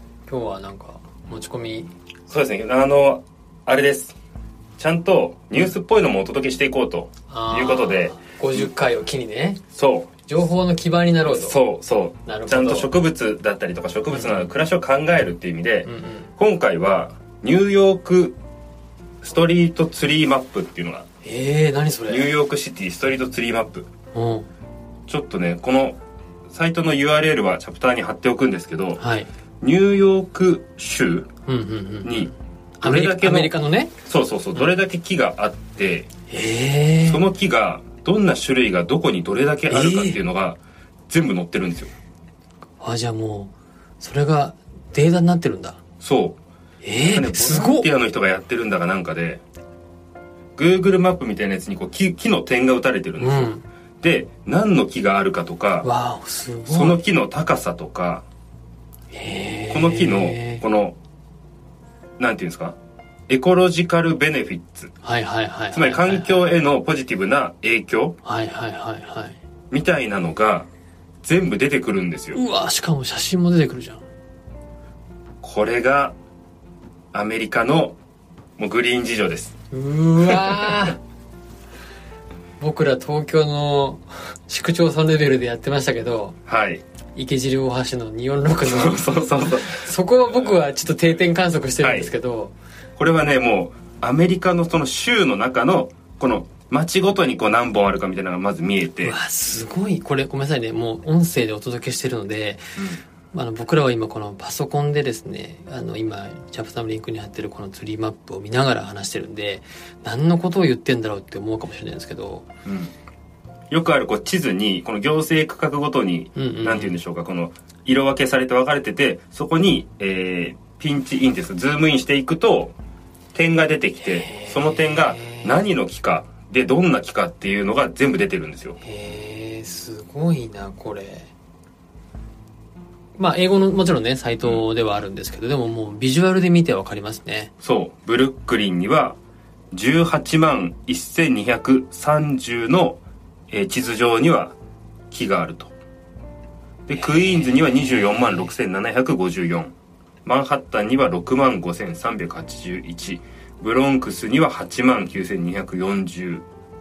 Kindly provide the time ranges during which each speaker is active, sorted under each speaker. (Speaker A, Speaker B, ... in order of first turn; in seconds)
Speaker A: 0.3-1.9, 7.3-9.6, 10.2-11.6, 12.2-12.9, 14.1-14.5, 15.8-16.3, 21.2-22.3, 24.1-24.5, 29.0-29.3, 31.4-33.9, 36.3-37.2, 39.7-40.2, 42.8-45.8, 46.8-47.9, 53.2-53.6, 55.8-57.0, 59.1-60.6, 65.0-66.4, 68.2-69.4, 72.3-74.0, 79.7-81.0, 82.6-86.4, 87.1-92.5, 99.0-102.7, 103.3-112.5, 116.3-117.0, 124.0-125.6, 128.8-131.3, 133.2-137.5, 146.9-148.5
Speaker B: 2.3-4.1, 4.8-8.7, 9.7-10.1, 11.2-18.4, 19.2-21.1, 22.1-23.9, 25.1-26.0, 26.5-29.0, 29.6-31.3, 32.0-33.5, 34.0-36.1, 37.0-41.9, 46.0-46.4, 47.0-49.4, 50.5-55.9, 56.7-58.2, 59.7-61.0, 62.2-62.8, 63.3-64.9, 65.7-68.2, 69.7-70.7, 71.2-72.4, 75.4-76.1, 77.1-78.0, 78.6-79.5, 80.3-80.7, 86.5-86.8, 88.6-89.9, 91.8-92.1, 93.0-99.2, 102.8-103.0, 112.6-112.9, 113.7-122.7, 123.3-128.8, 137.6-139.2, 139.7-144.6, 145.1-145.7, 146.8-149.7, 150.2-156.4